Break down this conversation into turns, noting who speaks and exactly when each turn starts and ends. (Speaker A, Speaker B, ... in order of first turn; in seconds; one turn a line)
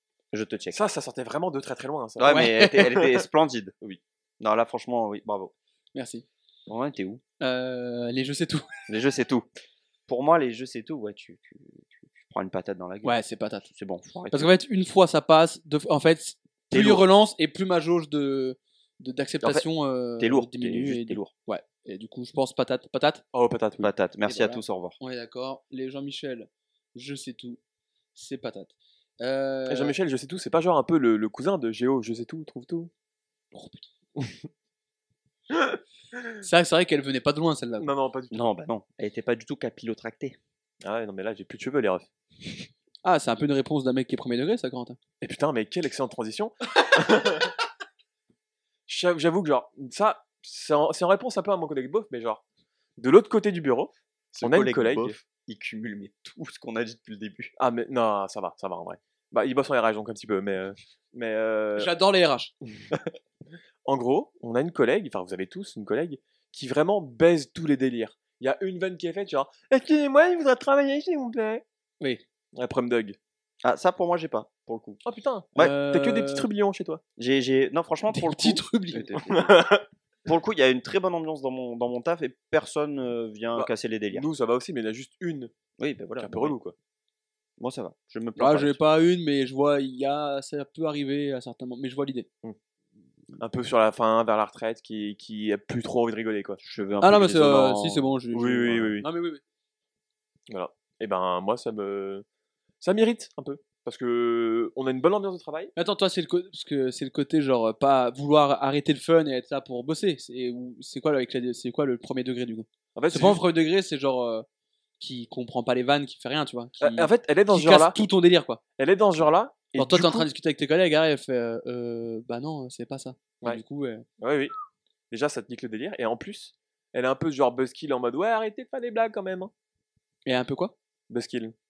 Speaker A: 0.3-0.8
Speaker B: 0.7-3.2
Speaker A: 2.2-5.5
Speaker C: 2.3-2.9
Speaker C: 5.9-6.2
Speaker A: 6.7-7.2
Speaker C: 7.4-8.7
Speaker A: 8.9-9.5
Speaker A: 10.1-13.1
Speaker C: 13.0-13.7
Speaker A: 13.7-14.5
Speaker C: 14.3-23.2
Speaker A: 16.7-17.1
Speaker A: 20.2-21.3
Speaker B: 23.3-23.9
Speaker A: 23.8-25.0
Speaker C: 24.3-27.6
Speaker C: 28.1-29.9
Speaker B: 29.7-32.9
Speaker C: 33.5-33.9
Speaker B: 35.5-36.2
Speaker C: 36.4-37.9
Speaker B: 37.8-38.4
Speaker A: 38.3-40.4
Speaker B: 40.8-42.1
Speaker C: 43.0-45.0
Speaker B: 45.2-47.5
Speaker B: 48.9-52.4
Speaker B: 53.0-55.2
Speaker A: 54.3-57.5
Speaker B: 57.6-61.9
Speaker C: 61.8-62.5
Speaker B: 63.9-71.6
Speaker B: 72.5-73.2
Speaker A: 73.6-75.0
Speaker B: 75.0-77.0
Speaker C: 75.6-76.5
Speaker A: 77.2-79.7
Speaker C: 78.1-79.1
Speaker B: 79.2-79.8
Speaker A: 80.3-84.3
Speaker B: 83.5-85.5
Speaker A: 85.8-86.6
Speaker B: 86.2-86.8
Speaker A: 87.6-88.8
Speaker C: 88.4-92.3
Speaker B: 93.4-96.6
Speaker A: 96.6-98.1
Speaker C: 97.0-99.4
Speaker B: 98.3-99.1
Speaker B: 100.5-102.2
Speaker B: 102.8-105.7
Speaker C: 105.8-114.5
Speaker B: 113.0-113.4
Speaker C: 115.0-118.6
Speaker B: 116.8-118.0
Speaker B: 118.8-120.3
Speaker C: 119.8-124.0
Speaker B: 124.2-124.5
Speaker B: 125.1-129.5
Speaker C: 130.3-130.7
Speaker B: 131.1-131.5